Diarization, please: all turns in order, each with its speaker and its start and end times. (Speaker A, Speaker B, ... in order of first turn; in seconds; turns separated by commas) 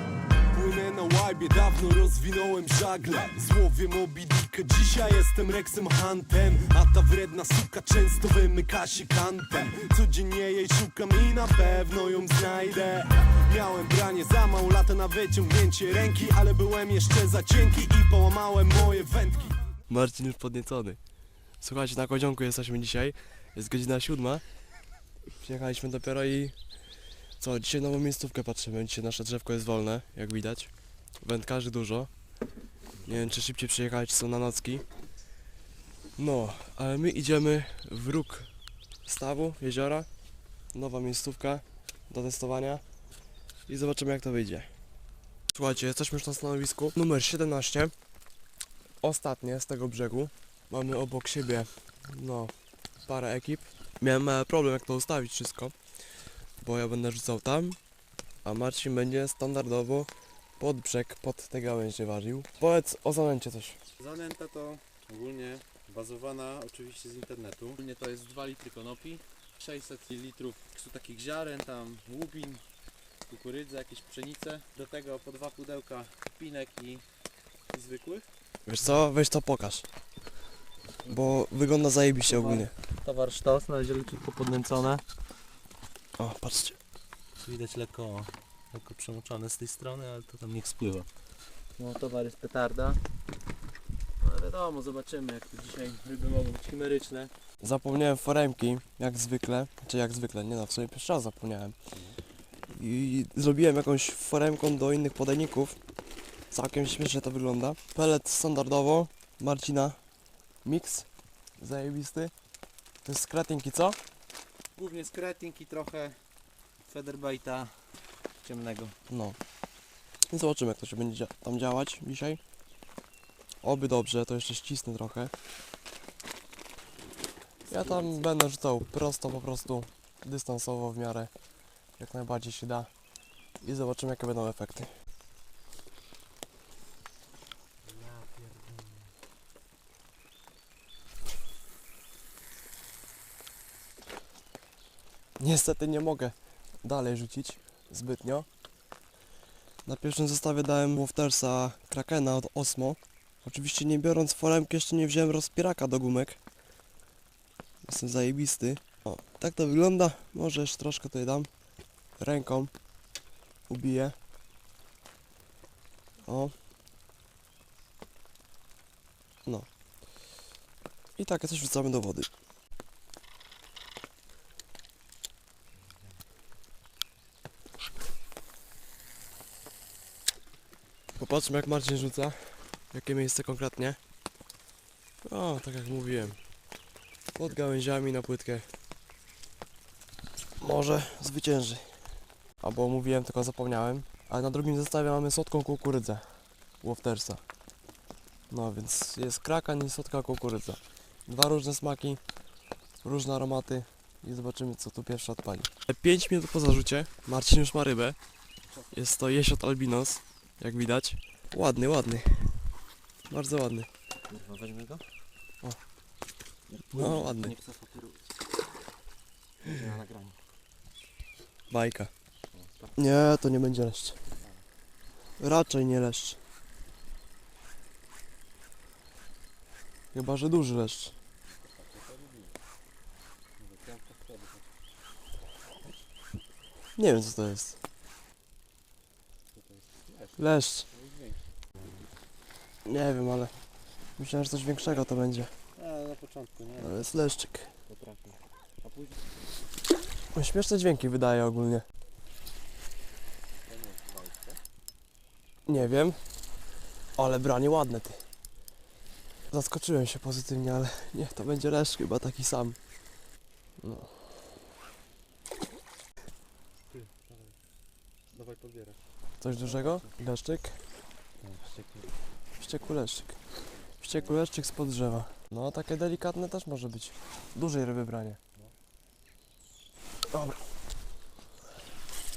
Speaker A: 0.5-19.6, Speaker B: 19.9-21.0, Speaker B: 21.6-24.4, Speaker B: 25.4-26.5, Speaker B: 27.4-32.1, Speaker C: 33.0-33.4, Speaker B: 33.0-34.8, Speaker B: 36.2-38.5, Speaker B: 39.0-40.1, Speaker B: 40.7-42.8, Speaker B: 43.7-44.7, Speaker B: 45.5-47.9, Speaker B: 49.0-52.5, Speaker B: 53.0-55.7, Speaker B: 56.6-57.8, Speaker B: 58.4-63.8, Speaker C: 64.0-72.6, Speaker C: 73.3-77.0, Speaker C: 77.7-78.3, Speaker B: 78.7-79.8, Speaker C: 81.0-81.4, Speaker B: 81.1-82.7, Speaker C: 82.2-85.0, Speaker B: 86.2-86.8, Speaker C: 87.4-91.1, Speaker C: 91.8-93.0, Speaker C: 94.2-97.3, Speaker B: 97.6-101.7, Speaker C: 101.9-102.2, Speaker B: 102.7-105.8, Speaker B: 106.5-110.0, Speaker B: 110.6-112.3, Speaker B: 113.0-114.0, Speaker C: 114.7-116.2, Speaker C: 116.8-119.0, Speaker B: 119.1-119.4, Speaker B: 120.3-122.4, Speaker B: 123.6-125.3, Speaker C: 127.6-128.3, Speaker B: 127.7-131.3, Speaker B: 132.0-132.9, Speaker B: 133.6-134.9, Speaker C: 137.8-139.1, Speaker B: 145.4-148.5, Speaker B: 149.8-156.4, Speaker B: 157.8-161.5, Speaker B: 162.2-162.7, Speaker B: 163.7-164.2, Speaker B: 166.2-166.5, Speaker B: 171.2-172.3, Speaker B: 181.2-184.0, Speaker B: 185.2-186.4, Speaker B: 187.3-188.7, Speaker B: 190.6-191.9, Speaker B: 192.6-197.4, Speaker B: 198.5-202.2, Speaker B: 203.0-208.2, Speaker C: 208.7-209.0, Speaker B: 208.9-212.6, Speaker B: 213.3-213.9, Speaker C: 214.3-215.1, Speaker C: 216.7-218.3, Speaker B: 216.9-217.5, Speaker C: 219.6-220.4, Speaker B: 221.7-222.1, Speaker C: 222.5-223.0, Speaker B: 222.9-224.2, Speaker C: 224.3-224.7, Speaker B: 225.4-226.4, Speaker B: 230.1-231.1, Speaker C: 231.4-232.6, Speaker C: 233.6-234.7, Speaker B: 236.9-237.8, Speaker C: 239.5-241.4, Speaker B: 240.4-240.8, Speaker B: 242.8-243.5, Speaker B: 244.2-245.5, Speaker C: 244.8-245.1, Speaker C: 245.7-247.2, Speaker B: 246.8-247.7, Speaker C: 247.8-249.4, Speaker B: 250.3-251.8, Speaker C: 253.6-254.6, Speaker B: 255.7-256.2, Speaker B: 257.1-258.2, Speaker B: 259.5-262.8, Speaker B: 263.8-264.1, Speaker C: 266.9-267.6, Speaker C: 268.3-270.1, Speaker B: 269.4-270.8, Speaker C: 271.4-272.1, Speaker B: 272.6-273.4, Speaker B: 274.0-278.4, Speaker C: 274.0-274.5, Speaker B: 280.3-280.6